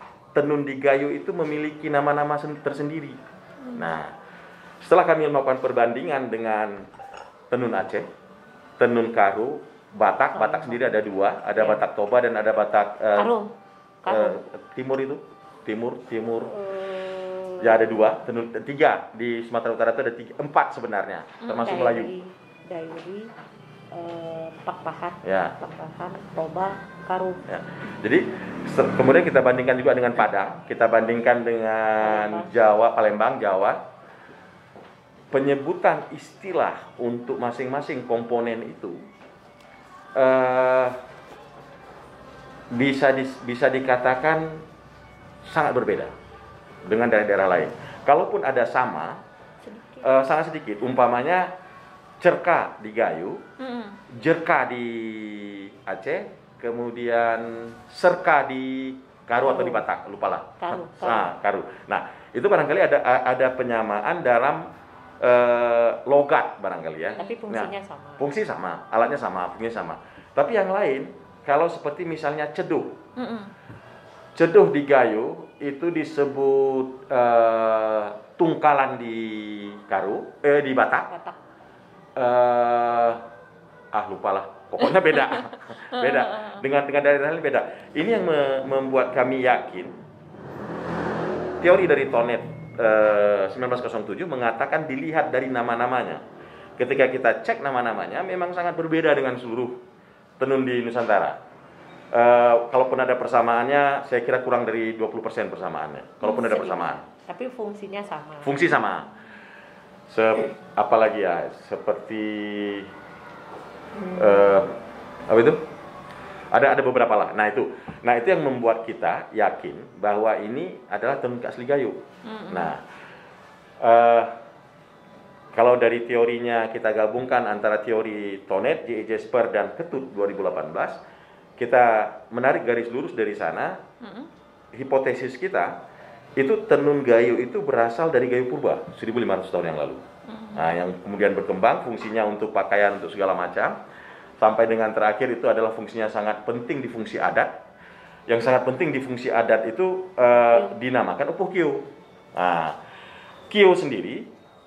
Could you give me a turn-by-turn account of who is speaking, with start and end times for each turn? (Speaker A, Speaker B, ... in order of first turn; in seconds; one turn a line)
Speaker A: 0.3-3.2
Speaker A: 3.8-4.1
Speaker A: 4.8-6.9
Speaker A: 7.5-8.1
Speaker A: 8.8-13.3
Speaker B: 10.3-10.9
Speaker B: 11.6-11.8
Speaker B: 13.2-13.5
Speaker B: 14.0-14.4
Speaker A: 14.1-16.5
Speaker B: 16.5-17.8
Speaker A: 17.6-22.1
Speaker C: 21.4-21.9
Speaker B: 21.6-23.3
Speaker B: 23.9-27.4
Speaker A: 25.2-25.6
Speaker A: 27.5-33.8
Speaker B: 32.0-32.5
Speaker A: 35.3-39.0
Speaker A: 40.2-41.0
Speaker A: 42.7-44.6
Speaker A: 45.5-46.1
Speaker A: 46.9-49.2
Speaker B: 49.7-50.0
Speaker A: 50.0-51.5
Speaker A: 52.2-53.4
Speaker C: 53.6-54.0
Speaker A: 54.1-64.7
Speaker B: 59.4-59.8
Speaker B: 60.6-61.3
Speaker A: 65.2-73.0
Speaker B: 67.2-68.2
Speaker C: 73.2-73.5
Speaker A: 74.4-81.1
Speaker B: 81.1-81.4
Speaker A: 82.2-83.2
Speaker A: 83.9-90.0
Speaker C: 86.0-86.6
Speaker A: 91.6-96.2
Speaker A: 96.8-99.8
Speaker A: 100.4-101.4
Speaker A: 102.1-107.0
Speaker C: 106.3-106.7
Speaker B: 107.3-108.6
Speaker A: 108.4-109.1
Speaker A: 110.1-112.9
Speaker A: 114.2-114.7
Speaker A: 115.3-115.6
Speaker A: 116.5-122.8
Speaker C: 122.2-122.7
Speaker A: 123.8-124.3
Speaker A: 125.5-131.0
Speaker A: 131.6-133.8
Speaker C: 134.0-134.3
Speaker A: 134.7-135.8
Speaker A: 136.4-140.0
Speaker C: 140.3-140.7
Speaker A: 140.6-143.8
Speaker A: 144.4-147.6
Speaker A: 148.3-152.8
Speaker A: 153.5-154.3